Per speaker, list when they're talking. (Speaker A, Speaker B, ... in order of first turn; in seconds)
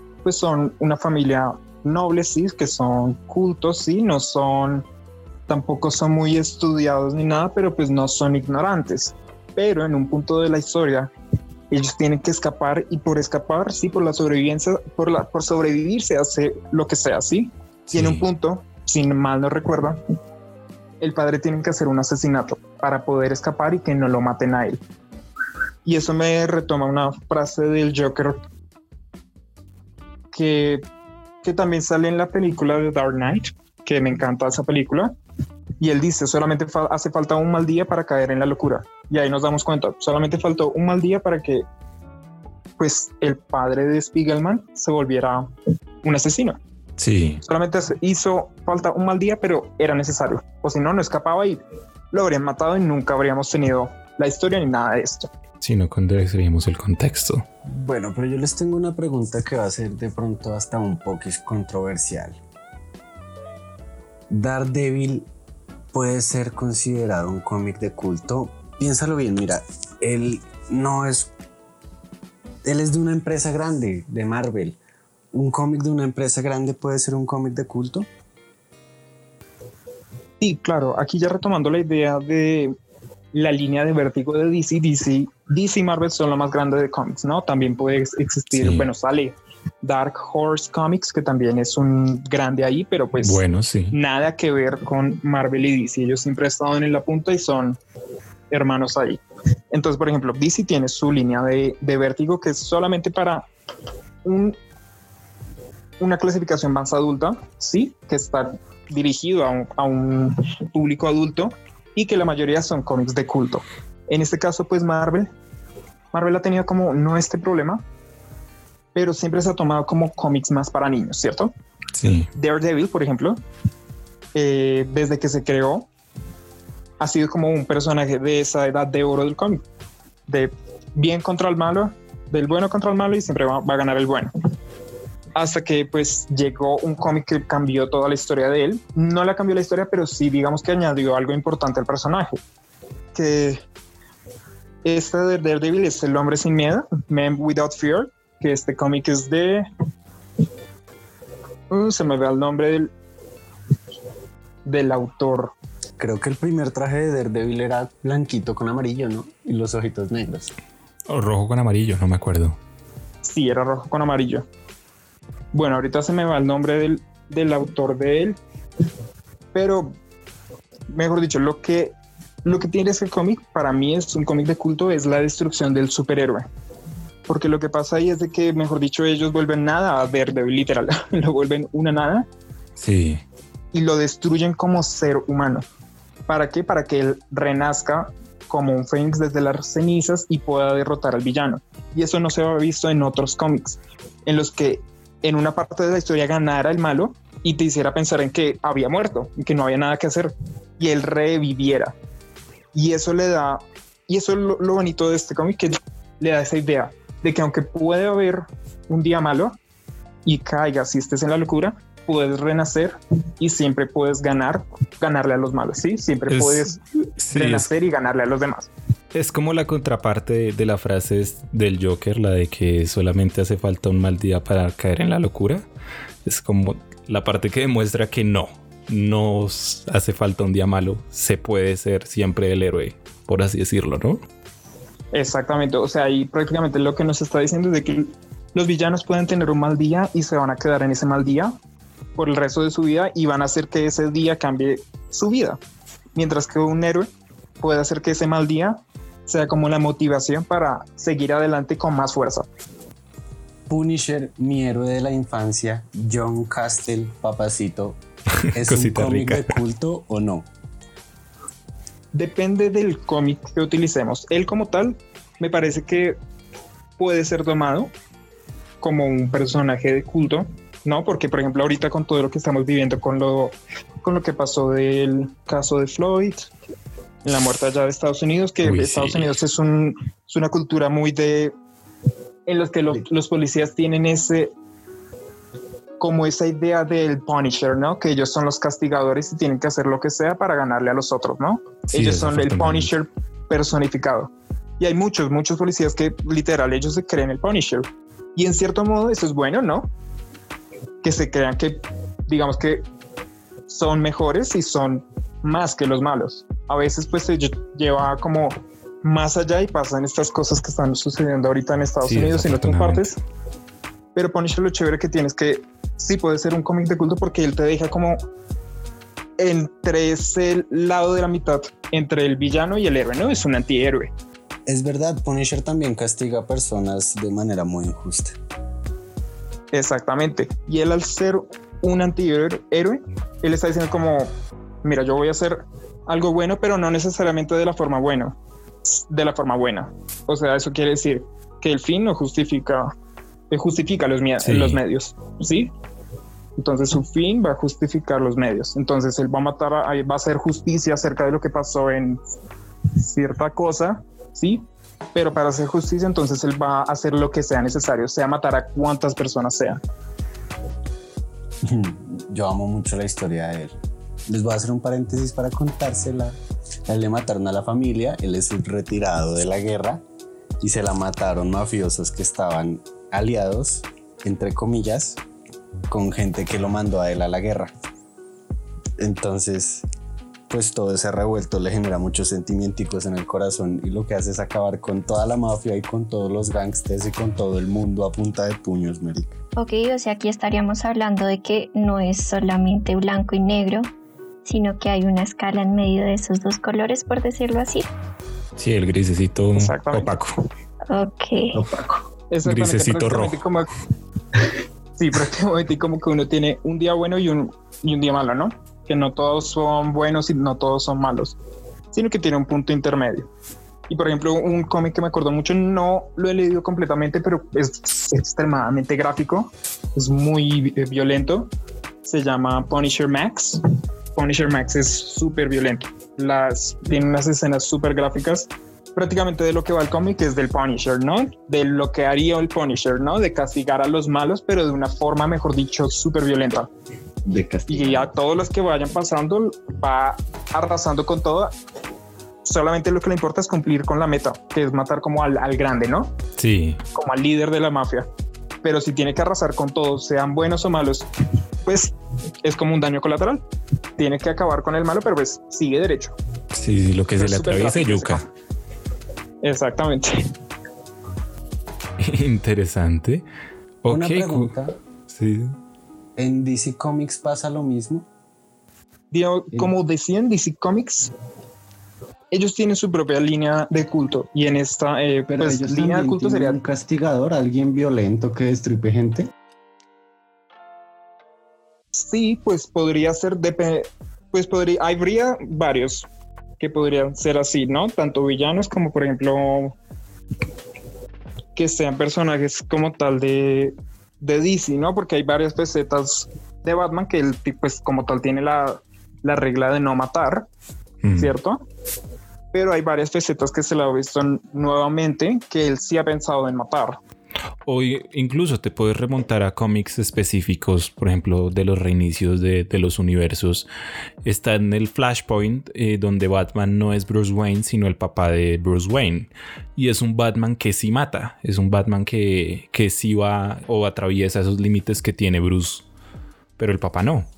Speaker A: 0.2-4.9, 5.5-11.1, 11.7-20.0, 21.0-24.8, 25.9-28.4, 30.3-30.9, 31.4-35.1, 35.8-41.6, 42.8-45.5, 46.0-46.6, 47.4-51.6, 52.1-55.3, 80.4-82.8, 83.3-97.8, 98.5-99.2, 99.7-103.5, 104.2-104.6, 106.0-115.3, 116.1-117.8, 119.0-121.5, 122.3-123.4, 124.3-125.9, 127.0-129.6, 130.3-134.3, 135.3-142.4, 143.2-143.6, 144.8-149.7, 151.7-152.9, 154.7-155.5, 163.2-164.5, 165.5-168.4, 169.5-169.9, 170.9-171.9, 172.4-176.5, 177.3-182.3, 183.7-185.7, 186.3-201.9, 202.7-209.6, 210.2-216.8, 217.3-218.7, 235.1-241.6, 242.2-245.6, 246.2-252.5, 262.1-266.2, 267.0-267.9, 268.8-276.5, 277.2-281.5, 282.5-284.5, 286.0-299.9, 301.0-302.8, 303.7-313.2, 314.1-318.2, 319.4-324.1, 329.7-334.3, 334.8-342.9, 343.5-345.7, 346.6-352.2, 353.0-354.6, 355.1-359.8, 399.6-400.2, 402.3-403.7, 405.0-411.4, 411.9-413.3, 413.9-421.5, 422.0-423.6, 424.1-436.7, 437.7-441.5, 442.4-446.1, 446.9-448.1, 448.6-451.1, 451.6-453.4, 454.0-456.2, 457.2-458.3, 459.4-460.1, 469.1-471.1, 472.3-476.6, 481.9-486.1, 486.6-489.8, 491.6-500.5, 501.1-501.6, 502.5-507.0
Speaker B: 17.9-18.2, 47.0-47.4, 55.6-57.5, 88.5-88.9, 93.2-94.0, 121.9-122.3, 161.1-162.6, 182.8-183.2, 216.3-217.7, 219.1-225.7, 226.2-234.2, 258.5-259.6, 278.6-279.4, 291.9-292.9, 312.0-313.1, 344.4-344.8, 398.6-400.4, 402.4-403.4, 446.4-446.8, 456.5-458.2, 462.0-463.2, 463.8-464.6, 465.1-465.6, 501.0-501.3, 507.7-513.7, 514.2-525.9, 526.6-527.3
Speaker C: 57.7-62.4, 64.3-65.3, 65.9-71.3, 72.6-74.8, 75.3-78.1, 156.0-160.5, 253.7-258.0, 258.5-260.5, 324.7-328.4, 361.6-363.8, 364.3-370.0, 370.6-375.2, 375.9-377.7, 379.0-379.9, 380.5-389.4, 437.3-438.1, 463.9-464.8, 466.2-468.1, 475.3-479.3
Speaker D: 389.6-393.9, 394.4-397.9, 400.9-401.6